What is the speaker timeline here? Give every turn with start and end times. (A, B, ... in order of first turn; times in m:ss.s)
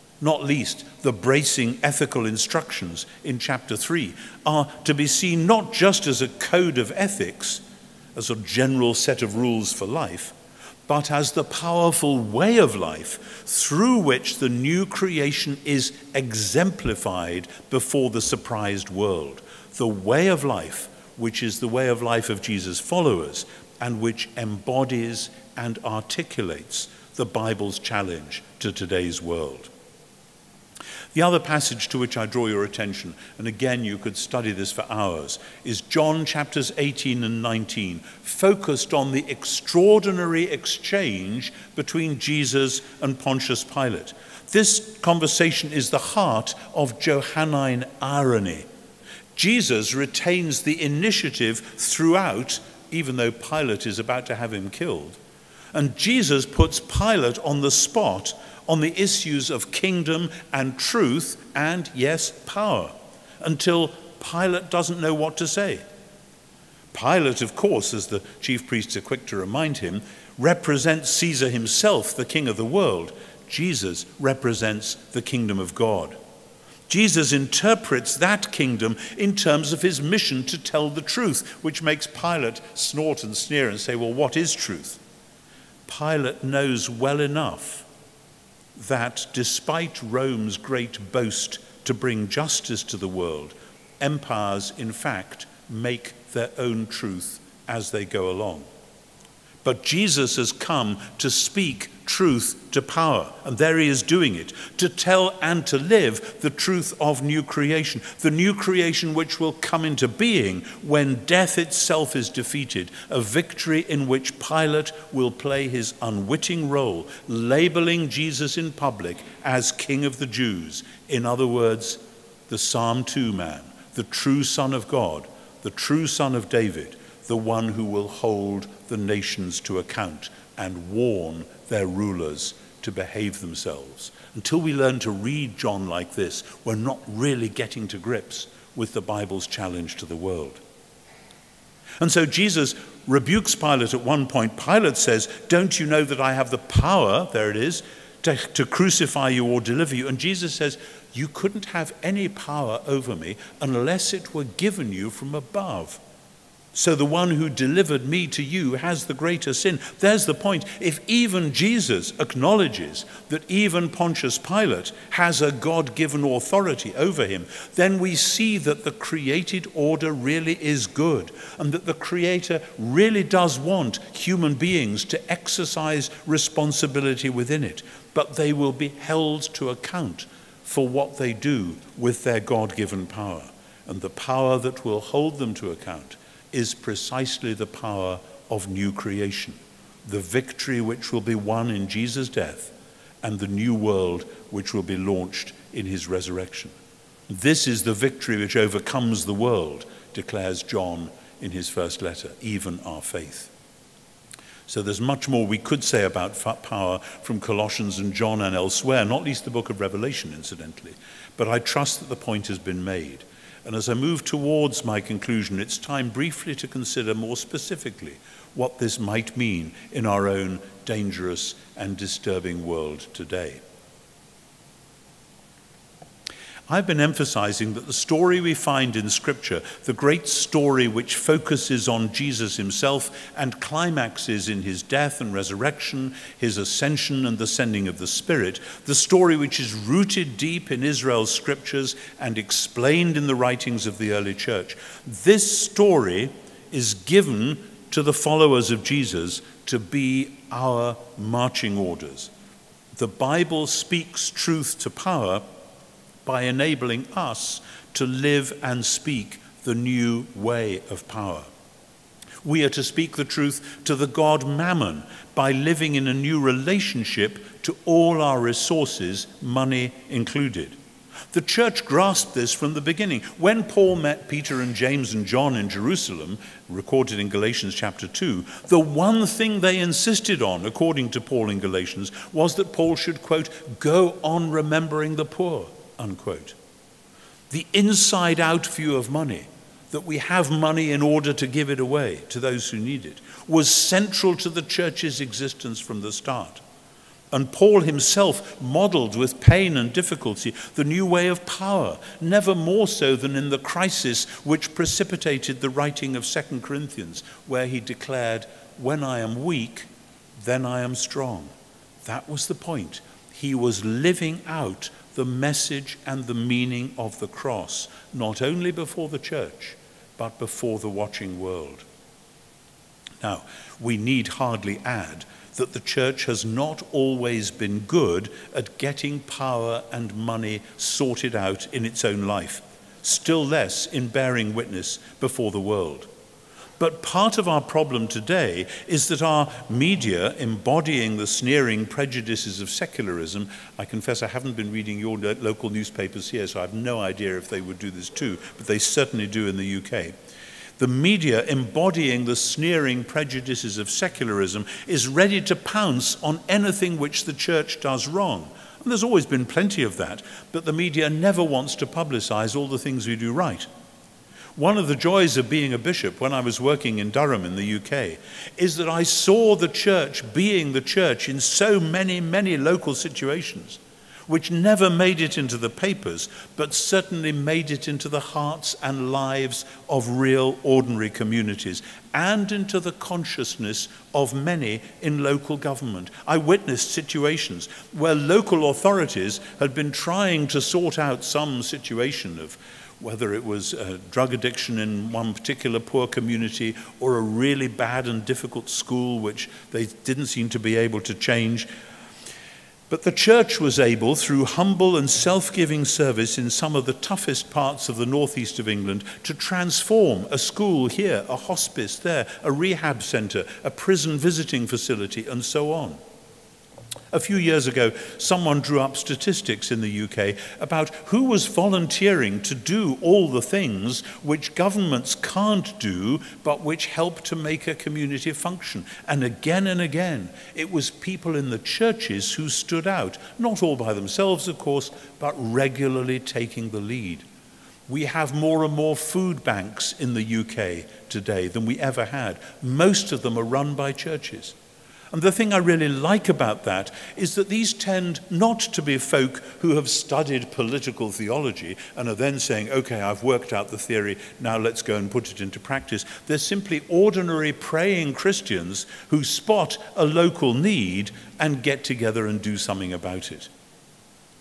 0:00.2-0:07.6 A
0:08.1-0:10.3 A
0:10.9-0:29.7 A
0:31.1-0:48.7 A
0:49.3-0:55.2 A
0:55.7-1:05.8 A
1:06.9-1:16.2 A
1:16.9-1:25.0 A
1:25.8-1:27.8 A
1:28.8-1:38.7 A
1:39.6-2:20.6 A
2:22.0-2:36.0 A
2:36.7-3:16.7 A
3:17.3-3:23.5 A
3:24.7-3:43.6 A
3:46.7-4:12.3 A
4:13.0-4:15.4 A
4:16.2-4:21.5 A
4:22.4-4:30.8 A
4:31.3-4:46.6 A
4:47.5-4:56.6 A
4:57.3-5:11.5 A
5:12.0-5:21.8 A
5:23.2-5:36.1 A
5:36.8-5:50.1 A
5:50.8-6:03.7 A
6:04.6-6:41.7 A
6:42.9-6:56.0 A
6:57.1-7:17.2 A
7:17.9-7:24.5 A
7:25.1-7:43.5 A